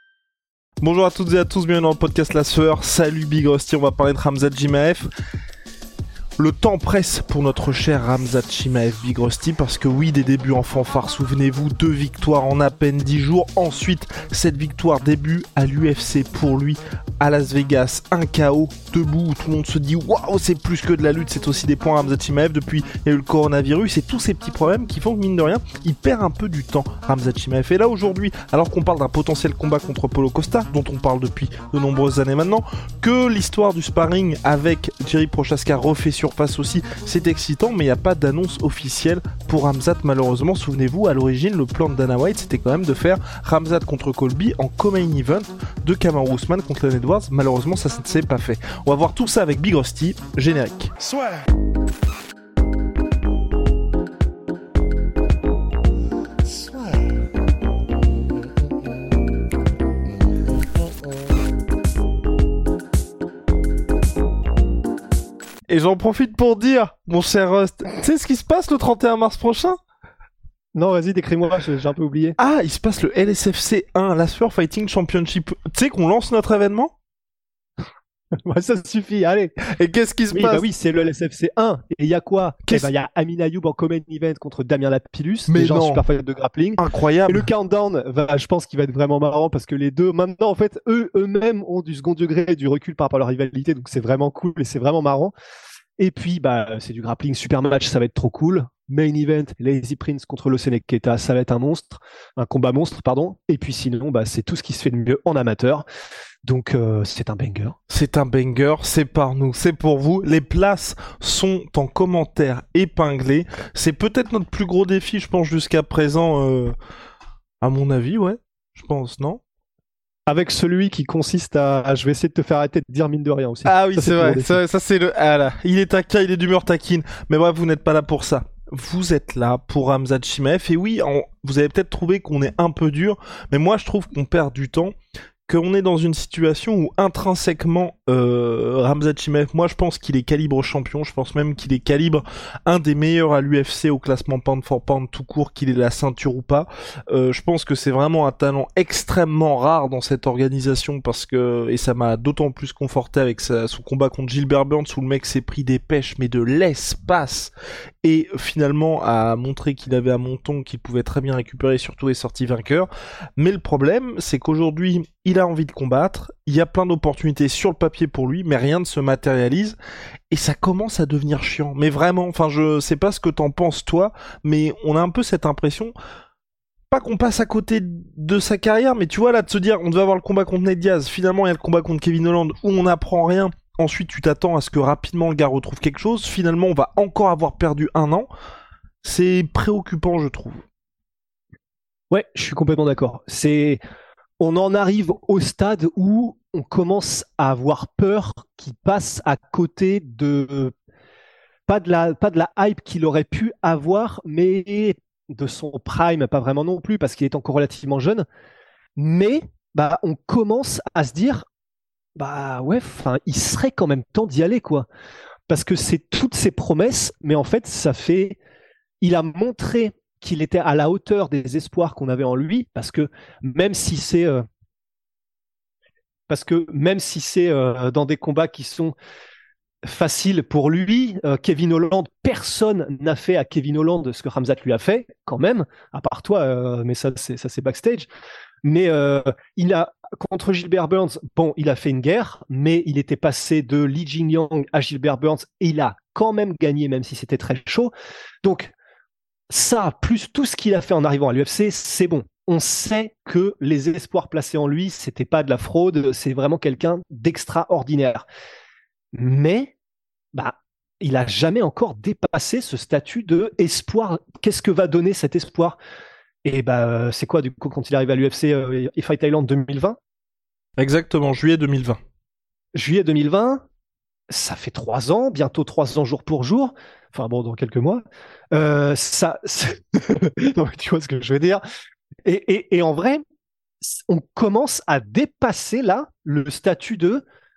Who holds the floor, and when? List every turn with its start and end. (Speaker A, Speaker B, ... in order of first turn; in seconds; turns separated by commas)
Speaker A: 0.8-5.1, Speaker A: 6.4-50.9, Speaker A: 65.7-69.8, Speaker B: 70.7-72.3, Speaker A: 72.4-76.9, Speaker B: 78.5-79.5, Speaker A: 79.7-80.7, Speaker B: 80.3-95.3, Speaker A: 82.7-82.9, Speaker A: 85.5-86.0, Speaker A: 86.8-87.5, Speaker B: 96.0-105.8, Speaker B: 106.4-107.8, Speaker A: 107.9-116.7, Speaker A: 117.6-119.4, Speaker B: 120.3-124.6, Speaker A: 123.6-134.9, Speaker A: 135.5-157.5, Speaker A: 158.0-169.8, Speaker A: 170.3-175.9, Speaker A: 176.9-188.3, Speaker A: 189.0-190.6, Speaker B: 192.1-193.8, Speaker B: 194.4-200.7, Speaker B: 201.7-208.2, Speaker B: 208.9-211.4, Speaker B: 212.2-214.9, Speaker B: 215.5-218.4, Speaker B: 219.0-224.4, Speaker B: 226.3-228.9, Speaker B: 229.8-238.1, Speaker B: 238.6-247.9, Speaker B: 248.4-248.7, Speaker B: 249.5-258.2, Speaker B: 259.1-259.7, Speaker B: 260.3-265.8, Speaker B: 266.4-270.0, Speaker A: 270.8-272.0, Speaker B: 272.7-273.6, Speaker B: 274.3-281.6, Speaker B: 282.2-283.2, Speaker B: 283.8-287.2